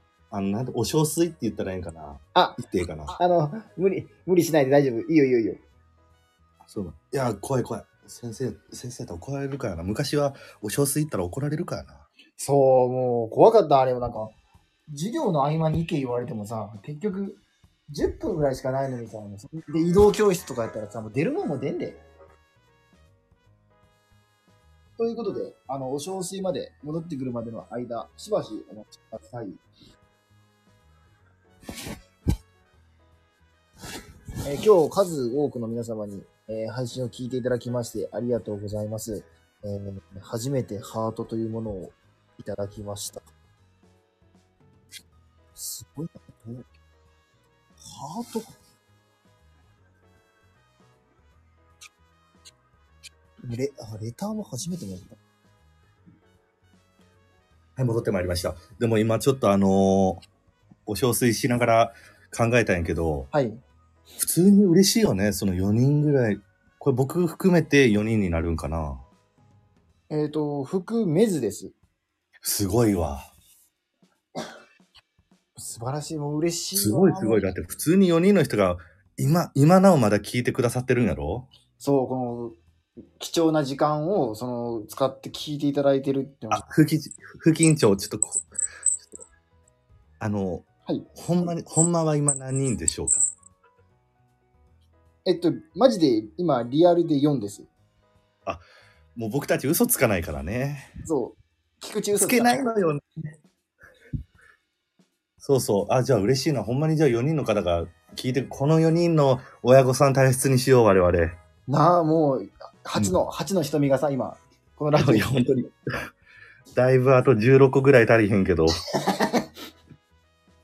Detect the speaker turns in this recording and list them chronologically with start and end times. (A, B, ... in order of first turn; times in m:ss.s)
0:00.3-0:03.2 A
0:02.4-0:05.6 B
0:06.7-0:12.1 A
0:12.4-0:14.3 B
0:14.9-0:22.0 B
0:25.0-0:29.6 B
0:34.4-0:43.2 B
0:45.6-0:46.6 B
0:47.8-0:48.5 B
0:53.4-0:55.2 B
0:57.8-1:00.2 A
1:00.9-1:03.3 A
1:03.3-1:03.6 B
1:04.2-1:09.0 A
1:10.1-1:11.7 B
1:12.4-1:13.3 A
1:15.6-1:17.5 B
1:16.8-1:21.5 A
1:21.8-1:22.6 B
1:23.2-1:26.6 B
1:26.5-1:28.4 A
1:30.2-1:33.3 A
1:35.2-1:37.7 B
1:39.2-1:40.9 A
1:41.0-1:42.7 B
1:42.2-1:43.0 A
1:45.4-1:51.4 A
1:51.7-1:55.4 B
1:55.0-1:55.7 A
1:56.8-1:58.8 A
1:59.0-1:59.5 B